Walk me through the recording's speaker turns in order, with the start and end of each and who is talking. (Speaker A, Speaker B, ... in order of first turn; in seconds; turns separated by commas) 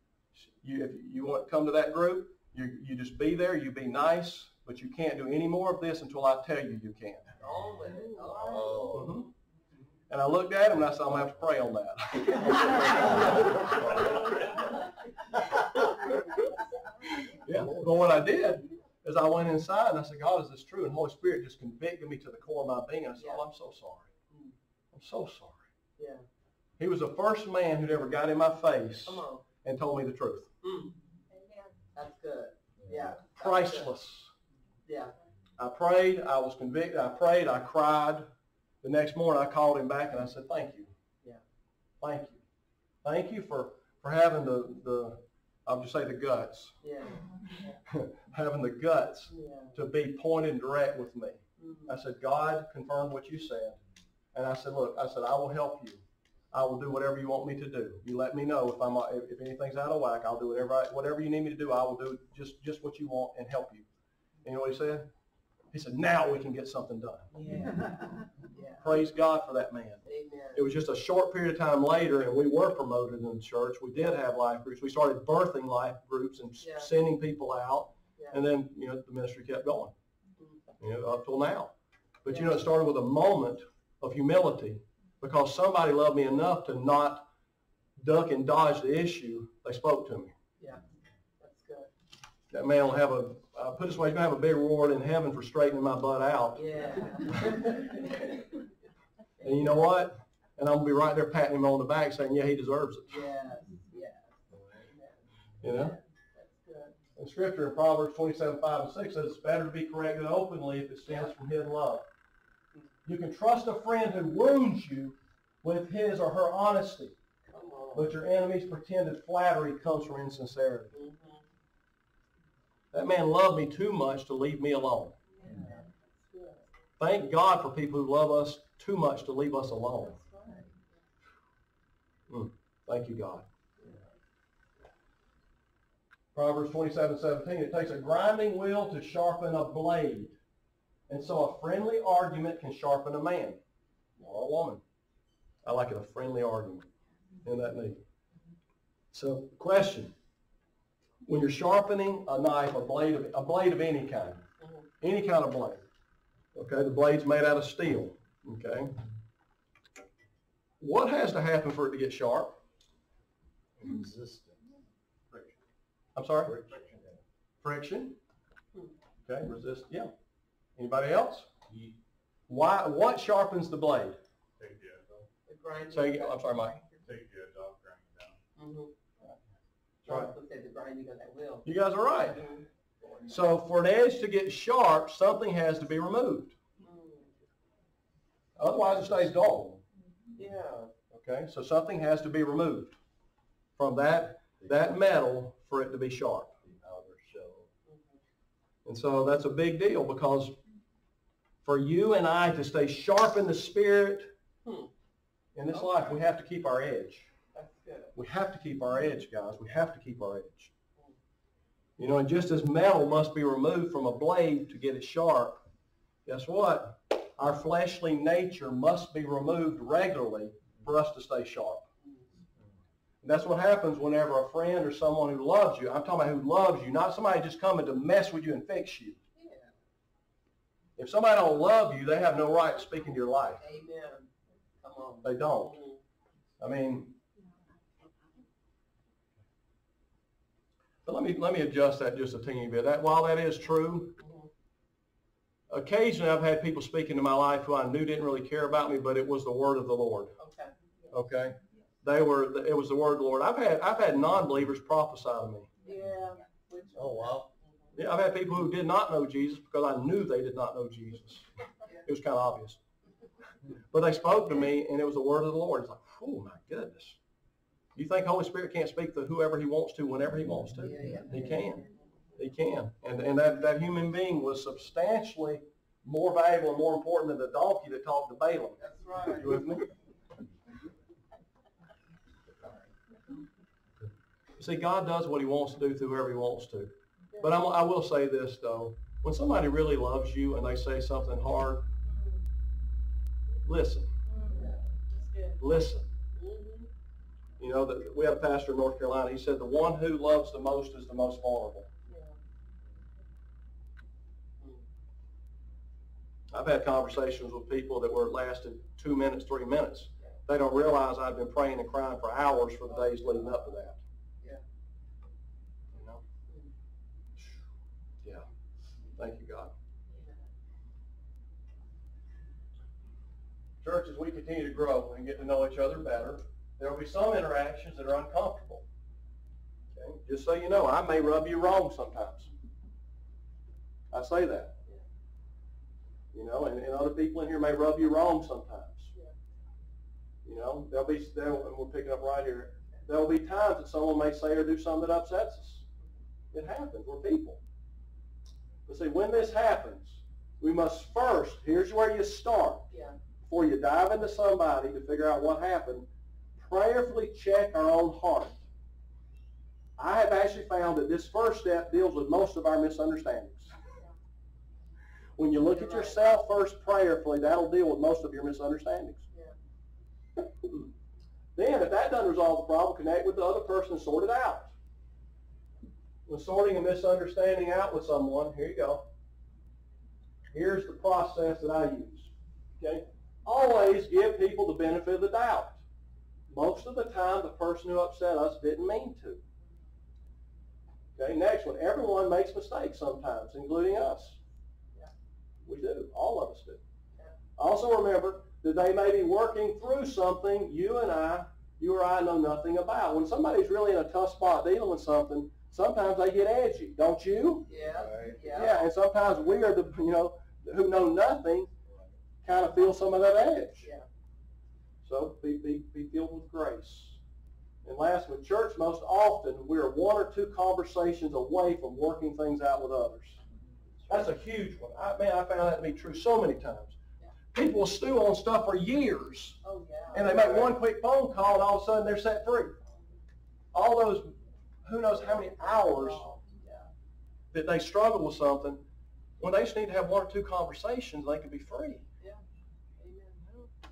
Speaker A: 0.3-7.2, Speaker B: 7.4-9.0, Speaker C: 8.3-9.2, Speaker A: 8.9-9.3, Speaker A: 10.1-13.5, Speaker C: 13.3-14.1, Speaker A: 17.3-24.1, Speaker C: 17.5-17.9, Speaker B: 23.2-23.4, Speaker A: 24.9-25.6, Speaker B: 26.0-26.2, Speaker A: 26.8-30.5, Speaker B: 29.1-29.4, Speaker B: 30.6-30.9, Speaker B: 31.9-33.9, Speaker C: 32.8-33.1, Speaker A: 33.4-34.3, Speaker B: 34.9-35.1, Speaker A: 35.6-38.3, Speaker A: 38.8-40.9, Speaker A: 42.0-42.4, Speaker A: 43.0-46.8, Speaker B: 46.8-47.8, Speaker A: 47.9-53.8, Speaker B: 49.3-49.7, Speaker B: 51.6-51.9, Speaker A: 54.3-63.9, Speaker A: 64.4-65.1, Speaker A: 65.7-67.3, Speaker B: 67.3-68.8, Speaker A: 68.8-79.9, Speaker B: 70.1-70.7, Speaker B: 76.6-76.9, Speaker A: 80.8-87.3, Speaker A: 88.0-90.3, Speaker B: 91.4-91.9, Speaker A: 92.5-96.7, Speaker B: 96.5-98.4, Speaker B: 99.4-99.7, Speaker A: 99.4-103.2, Speaker B: 103.1-105.1, Speaker A: 105.6-106.0, Speaker B: 105.7-106.9, Speaker A: 107.2-112.1, Speaker A: 113.0-117.2, Speaker B: 117.5-118.1, Speaker A: 117.9-121.0, Speaker B: 120.9-121.4, Speaker A: 122.9-125.2, Speaker B: 125.4-126.7, Speaker A: 127.0-130.2, Speaker B: 130.0-130.7, Speaker A: 132.3-133.4, Speaker A: 136.3-140.3, Speaker A: 141.1-143.6, Speaker A: 144.2-144.8, Speaker A: 145.6-146.9, Speaker A: 147.4-148.0, Speaker A: 149.1-150.1, Speaker A: 151.2-154.4, Speaker A: 155.0-155.8, Speaker A: 156.5-158.9, Speaker A: 160.8-162.6, Speaker C: 163.8-164.6, Speaker A: 166.1-166.7, Speaker C: 166.4-167.2, Speaker A: 167.6-168.2, Speaker A: 169.2-170.1, Speaker A: 170.8-171.5, Speaker C: 171.7-172.0, Speaker A: 172.5-174.2, Speaker C: 174.6-175.3, Speaker B: 175.5-177.0, Speaker A: 175.9-176.8, Speaker C: 177.1-178.4, Speaker B: 178.6-178.9, Speaker A: 180.0-180.3, Speaker B: 180.0-181.7, Speaker A: 181.6-182.5, Speaker B: 182.2-182.6, Speaker A: 183.3-186.5, Speaker B: 186.8-187.3, Speaker A: 188.6-189.7, Speaker B: 190.3-190.9, Speaker A: 191.1-192.9, Speaker A: 193.8-196.5, Speaker C: 196.6-197.7, Speaker B: 197.9-198.1, Speaker A: 198.8-200.6, Speaker A: 201.6-204.3, Speaker B: 204.6-204.9, Speaker A: 205.5-207.3, Speaker B: 207.5-208.1, Speaker A: 208.1-210.7, Speaker A: 212.0-215.6, Speaker A: 216.2-221.8, Speaker A: 223.2-229.2, Speaker B: 229.4-229.7, Speaker A: 231.0-233.6, Speaker B: 233.6-234.3, Speaker B: 234.8-236.0, Speaker A: 235.2-235.8, Speaker A: 236.6-237.2, Speaker A: 241.0-244.2, Speaker B: 244.2-244.5, Speaker A: 245.7-250.4, Speaker B: 250.4-250.7, Speaker A: 251.1-255.7, Speaker B: 255.8-257.5, Speaker C: 257.0-257.3, Speaker A: 257.9-261.4, Speaker A: 262.0-262.8, Speaker A: 263.9-267.2, Speaker A: 267.9-271.8, Speaker B: 270.8-271.9, Speaker A: 272.4-278.8, Speaker B: 278.8-279.6, Speaker A: 279.3-279.9, Speaker A: 284.6-291.9, Speaker A: 293.6-294.1, Speaker B: 294.5-295.5, Speaker A: 295.6-296.1, Speaker B: 296.4-296.9, Speaker A: 297.6-301.9, Speaker B: 302.1-302.4, Speaker A: 306.5-314.0, Speaker B: 313.0-313.6, Speaker A: 315.9-316.2, Speaker A: 319.2-319.7, Speaker A: 323.8-328.8, Speaker A: 329.9-332.5, Speaker A: 334.1-334.7, Speaker A: 336.3-339.1, Speaker A: 340.4-345.8, Speaker A: 346.5-347.6, Speaker A: 348.9-352.9, Speaker B: 352.9-353.2, Speaker A: 353.5-358.6, Speaker A: 360.0-363.7, Speaker A: 365.4-369.2, Speaker B: 365.7-366.2, Speaker A: 370.4-370.9, Speaker A: 371.5-374.7, Speaker A: 376.2-379.1, Speaker A: 380.5-385.8, Speaker A: 386.5-389.4, Speaker A: 391.1-394.4, Speaker A: 395.6-396.8, Speaker A: 397.6-407.7, Speaker B: 407.7-408.8, Speaker C: 407.8-408.4, Speaker A: 408.5-411.7, Speaker A: 412.4-413.9, Speaker A: 415.0-417.2, Speaker A: 417.8-423.4, Speaker A: 424.1-426.9, Speaker A: 427.5-429.6, Speaker B: 429.6-430.7, Speaker A: 430.1-432.8, Speaker A: 433.7-436.2, Speaker B: 435.7-436.9, Speaker A: 437.5-438.8, Speaker A: 439.4-442.0, Speaker B: 443.0-443.4